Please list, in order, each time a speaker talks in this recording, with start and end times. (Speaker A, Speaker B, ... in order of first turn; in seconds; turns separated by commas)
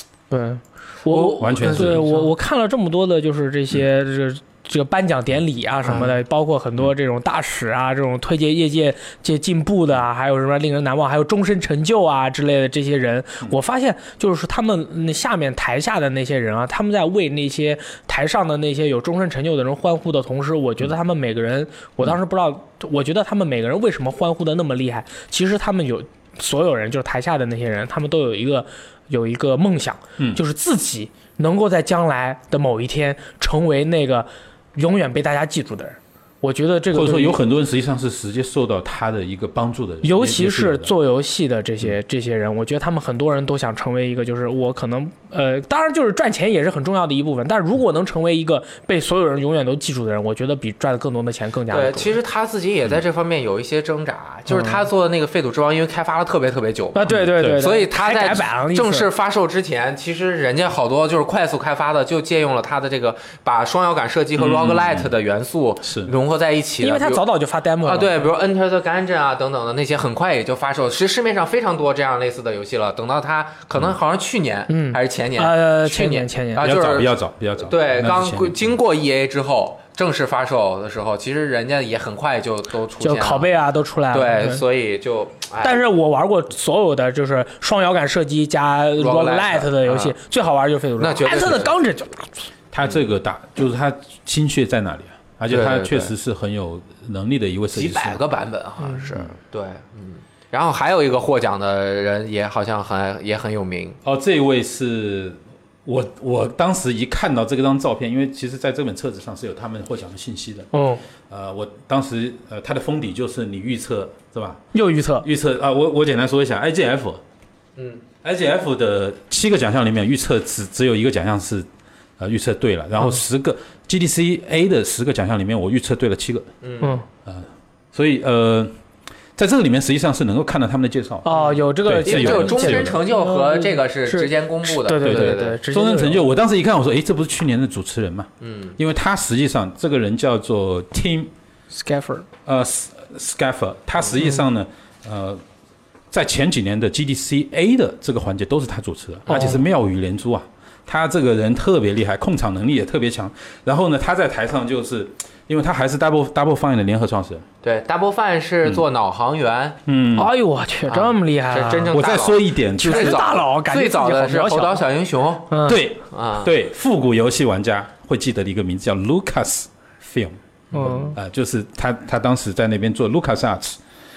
Speaker A: 0.3-37.4, Speaker B: 1.1-2.3, Speaker C: 1.3-2.1, Speaker B: 5.8-6.1, Speaker C: 36.9-40.9, Speaker A: 40.0-52.2, Speaker B: 51.7-67.2, Speaker A: 54.5-54.8, Speaker A: 56.9-59.1, Speaker C: 57.1-57.7, Speaker C: 64.3-65.1, Speaker C: 65.8-66.1, Speaker A: 66.8-68.3, Speaker B: 67.8-83.5, Speaker A: 74.7-76.7, Speaker C: 76.6-78.7, Speaker A: 83.0-84.6, Speaker B: 84.1-85.8, Speaker A: 85.6-92.5, Speaker B: 89.0-90.2, Speaker B: 91.0-91.7, Speaker C: 92.7-98.2, Speaker B: 95.5-96.1, Speaker B: 97.7-104.0, Speaker C: 104.0-110.7, Speaker A: 110.7-111.0, Speaker C: 111.3-114.6, Speaker A: 114.7-115.3, Speaker C: 115.2-117.2, Speaker B: 117.8-118.0, Speaker C: 118.2-121.7, Speaker C: 122.2-126.5, Speaker B: 126.6-127.0, Speaker C: 127.2-128.7, Speaker C: 129.3-133.0, Speaker A: 131.2-136.2, Speaker B: 131.3-135.6, Speaker C: 135.0-141.3, Speaker B: 138.4-138.8, Speaker A: 141.7-142.2, Speaker C: 142.4-145.4, Speaker C: 146.1-157.4, Speaker A: 149.3-149.6, Speaker B: 157.6-159.8, Speaker C: 159.8-160.3, Speaker A: 160.1-161.9, Speaker B: 160.9-165.6, Speaker C: 161.9-163.3, Speaker A: 162.8-164.8, Speaker A: 165.5-165.8, Speaker C: 165.6-173.8, Speaker B: 166.1-166.5, Speaker A: 170.7-171.2